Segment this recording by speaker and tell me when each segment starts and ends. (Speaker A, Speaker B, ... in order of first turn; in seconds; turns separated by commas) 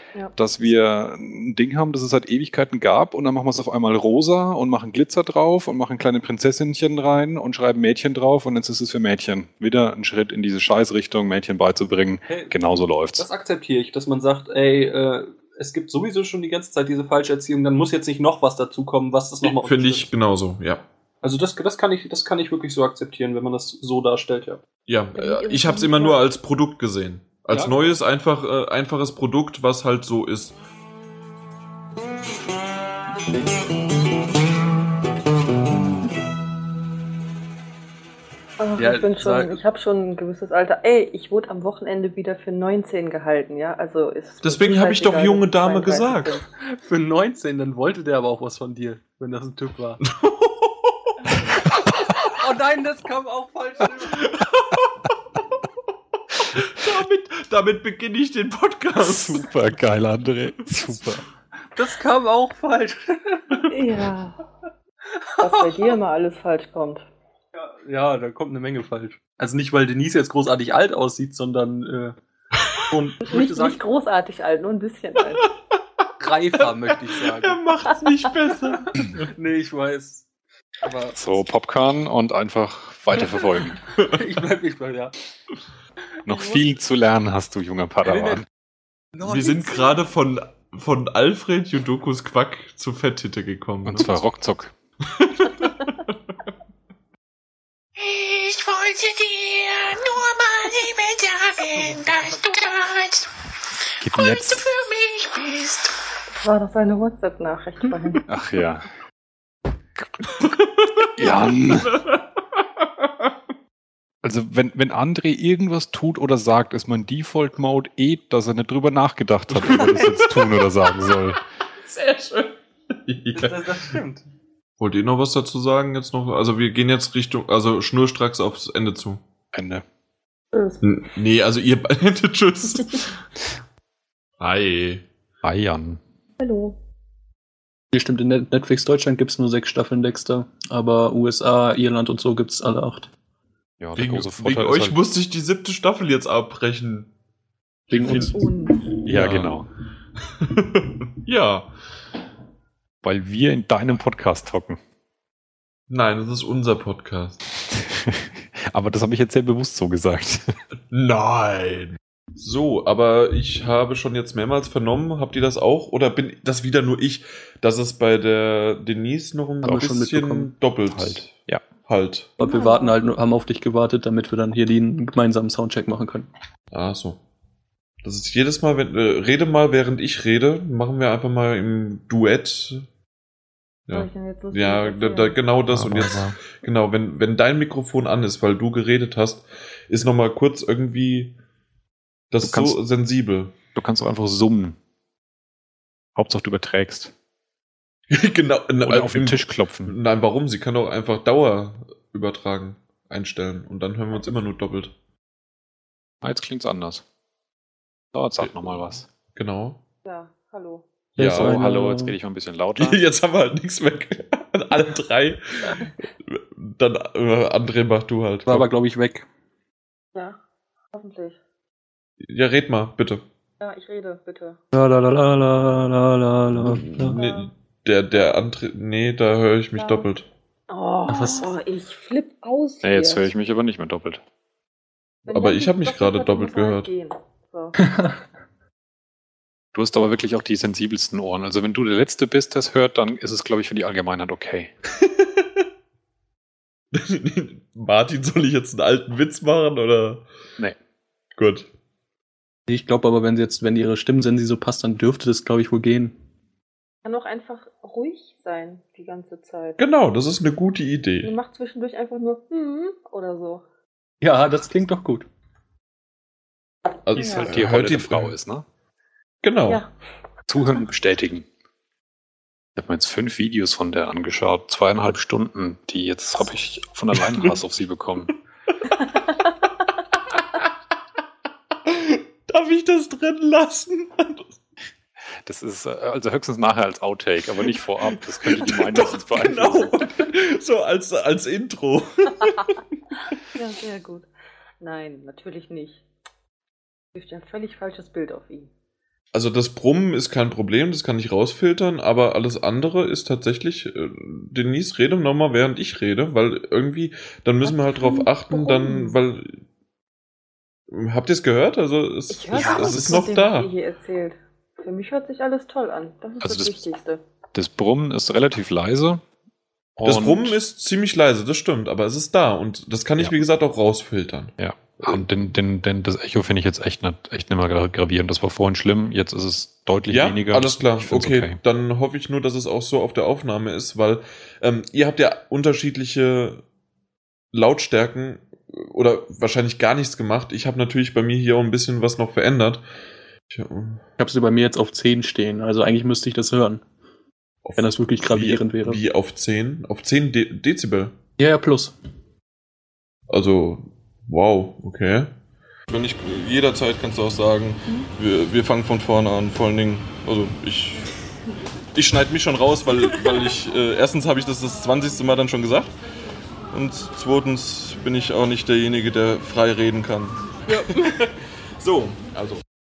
Speaker A: 0.3-13.3, Speaker B: 12.3-12.5, Speaker B: 13.2-20.1, Speaker C: 19.4-20.8, Speaker B: 21.2-24.6, Speaker C: 24.9-30.6, Speaker D: 25.1-26.2, Speaker B: 27.5-27.8, Speaker D: 38.6-46.5, Speaker B: 38.8-39.6, Speaker C: 44.4-46.4, Speaker B: 46.6-50.0, Speaker C: 50.0-51.4, Speaker B: 51.4-54.3, Speaker C: 54.2-54.8, Speaker C: 56.3-59.5, Speaker A: 59.0-61.2, Speaker B: 61.8-63.5, Speaker D: 63.7-64.4, Speaker B: 65.4-65.9, Speaker D: 65.4-67.0, Speaker B: 67.5-72.1, Speaker B: 72.9-73.8, Speaker D: 73.2-75.4, Speaker B: 76.2-77.6, Speaker C: 77.4-78.9, Speaker B: 79.0-80.2, Speaker B: 80.8-81.1, Speaker A: 81.1-83.8, Speaker B: 84.0-85.1, Speaker A: 86.2-88.5, Speaker B: 88.0-88.4, Speaker B: 89.1-90.0, Speaker C: 89.2-94.2, Speaker A: 93.8-94.7, Speaker C: 95.1-96.1, Speaker E: 98.0-103.3, Speaker A: 104.0-104.6, Speaker E: 104.1-106.0, Speaker D: 106.3-108.2, Speaker A: 108.3-108.9, Speaker A: 110.0-110.3, Speaker A: 111.2-112.0, Speaker A: 114.2-121.4, Speaker C: 119.5-120.5, Speaker C: 121.8-123.7, Speaker B: 123.3-124.2, Speaker C: 124.8-129.2, Speaker A: 129.5-129.8, Speaker D: 130.5-130.8, Speaker C: 130.8-133.2, Speaker C: 134.4-135.0, Speaker A: 135.4-136.0, Speaker D: 136.4-136.8, Speaker B: 137.9-143.1, Speaker A: 143.8-145.0, Speaker C: 143.9-147.1, Speaker A: 147.9-148.4, Speaker B: 147.9-148.3, Speaker D: 148.0-148.9, Speaker A: 149.0-149.7, Speaker C: 149.1-149.6, Speaker C: 150.4-151.7, Speaker A: 153.0-154.8, Speaker C: 155.9-157.4, Speaker A: 157.7-160.5, Speaker C: 160.9-171.3, Speaker B: 169.6-170.5, Speaker A: 170.9-171.6, Speaker C: 171.8-172.3, Speaker D: 172.4-173.0, Speaker B: 172.4-176.3, Speaker C: 176.7-177.2, Speaker C: 178.0-182.8, Speaker C: 183.9-191.3, Speaker D: 183.9-185.4, Speaker A: 185.7-186.4, Speaker C: 192.3-193.5, Speaker A: 192.4-192.8, Speaker A: 193.7-194.8, Speaker A: 196.2-197.1, Speaker C: 198.1-204.9, Speaker A: 198.8-199.9, Speaker A: 206.2-207.0, Speaker A: 208.1-209.1, Speaker C: 208.4-208.8, Speaker C: 209.3-209.8, Speaker D: 210.0-210.8, Speaker A: 211.2-213.0, Speaker C: 211.2-211.6, Speaker B: 211.2-212.2, Speaker C: 212.8-215.8, Speaker C: 216.3-218.6, Speaker B: 218.5-219.3, Speaker D: 220.9-221.4, Speaker C: 222.2-223.2, Speaker D: 223.6-224.6, Speaker B: 224.7-227.1, Speaker C: 226.6-230.3, Speaker D: 227.0-227.5, Speaker D: 229.8-230.1, Speaker D: 230.7-233.3, Speaker B: 231.1-231.5, Speaker A: 232.8-234.2, Speaker D: 235.2-238.0, Speaker C: 235.3-236.9, Speaker A: 239.7-244.7, Speaker C: 245.0-245.3, Speaker C: 246.9-250.2, Speaker C: 251.4-251.7, Speaker B: 252.7-256.1, Speaker D: 257.0-259.8, Speaker C: 259.8-261.3, Speaker D: 261.2-263.6, Speaker B: 264.2-265.3, Speaker C: 267.0-268.4, Speaker A: 267.1-268.6, Speaker D: 267.2-267.5, Speaker C: 269.4-269.8, Speaker A: 270.5-271.4, Speaker A: 272.8-278.3, Speaker C: 277.3-277.6, Speaker C: 280.3-280.6, Speaker C: 281.9-284.6, Speaker A: 285.4-290.1, Speaker C: 288.1-292.7, Speaker D: 293.5-294.3, Speaker D: 294.8-296.0, Speaker D: 297.1-298.7, Speaker C: 299.3-309.6, Speaker D: 307.6-309.1, Speaker C: 310.9-313.7, Speaker D: 312.3-317.2, Speaker A: 312.5-313.3, Speaker A: 316.4-316.8, Speaker A: 317.5-319.2, Speaker C: 320.0-325.3, Speaker A: 320.0-320.6, Speaker A: 324.6-331.6, Speaker C: 330.1-336.6, Speaker C: 337.5-342.8, Speaker C: 343.5-344.0, Speaker B: 344.2-346.8, Speaker C: 347.6-351.1, Speaker B: 347.8-349.0, Speaker B: 351.4-351.9, Speaker C: 353.3-355.3, Speaker C: 355.9-361.0, Speaker C: 361.9-365.9, Speaker C: 366.7-372.6